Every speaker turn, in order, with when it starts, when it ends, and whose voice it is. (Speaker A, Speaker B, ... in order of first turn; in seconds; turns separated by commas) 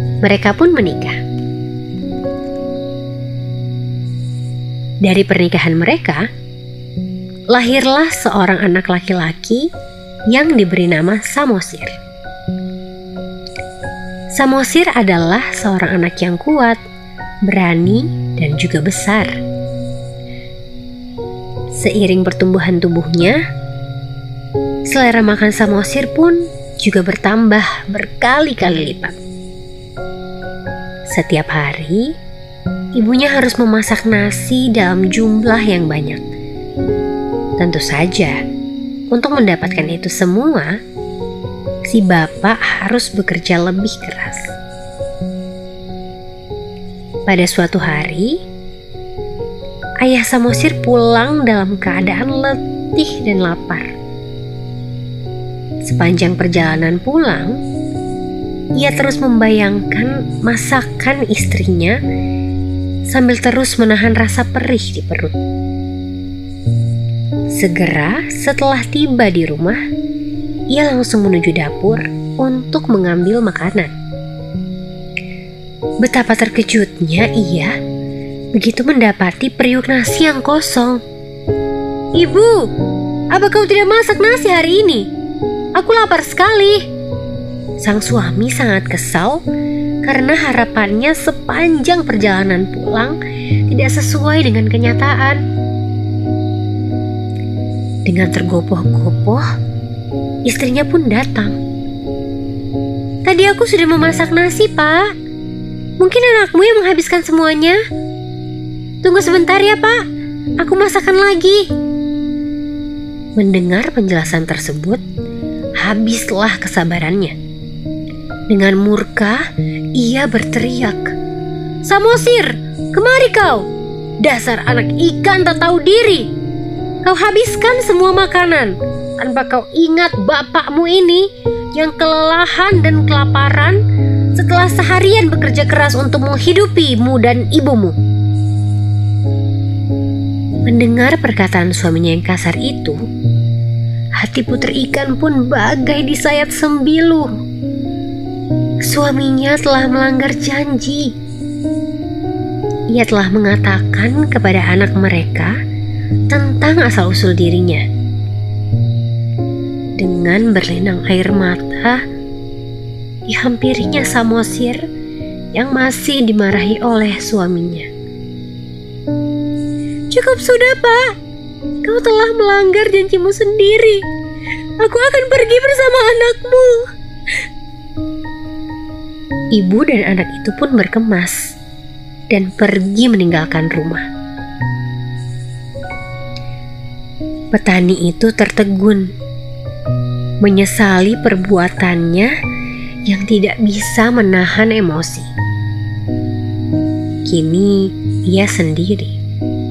Speaker A: 0.2-1.2, Speaker A: 5.0-6.3, Speaker A: 7.5-9.7, Speaker A: 10.3-11.9, Speaker A: 14.3-16.8, Speaker A: 17.5-19.4, Speaker A: 21.8-23.4, Speaker A: 24.9-29.2, Speaker A: 31.1-32.1, Speaker A: 33.0-36.2, Speaker A: 37.6-38.4, Speaker A: 39.1-40.7, Speaker A: 41.9-44.5, Speaker A: 47.3-48.4, Speaker A: 50.0-53.9, Speaker A: 55.8-57.6, Speaker A: 58.8-62.0, Speaker A: 63.1-65.4, Speaker A: 67.5-69.8, Speaker A: 70.7-73.9, Speaker A: 76.0-77.7, Speaker A: 78.5-81.0, Speaker A: 82.2-82.7, Speaker A: 83.3-85.1, Speaker A: 85.8-86.8, Speaker A: 87.8-89.4, Speaker A: 90.0-95.4, Speaker A: 98.1-99.5, Speaker A: 100.5-101.6, Speaker A: 103.2-105.1, Speaker A: 106.0-107.8, Speaker A: 109.0-110.0, Speaker A: 110.6-111.7, Speaker A: 113.4-115.0, Speaker A: 115.8-117.3, Speaker A: 118.5-119.4, Speaker A: 120.0-121.1, Speaker A: 121.8-123.7, Speaker A: 124.2-126.3, Speaker A: 127.0-133.8, Speaker A: 134.3-138.0, Speaker A: 140.7-143.0, Speaker A: 144.2-147.3, Speaker A: 148.8-151.1, Speaker A: 152.9-155.5, Speaker A: 156.3-157.8, Speaker A: 160.0-162.0, Speaker A: 163.3-164.8, Speaker A: 165.5-167.9, Speaker A: 170.1-171.1, Speaker A: 171.8-174.0, Speaker A: 174.8-176.9, Speaker A: 179.5-181.6, Speaker A: 182.3-184.0, Speaker A: 187.5-189.1, Speaker A: 190.4-192.3, Speaker A: 193.1-195.3, Speaker A: 197.3-199.2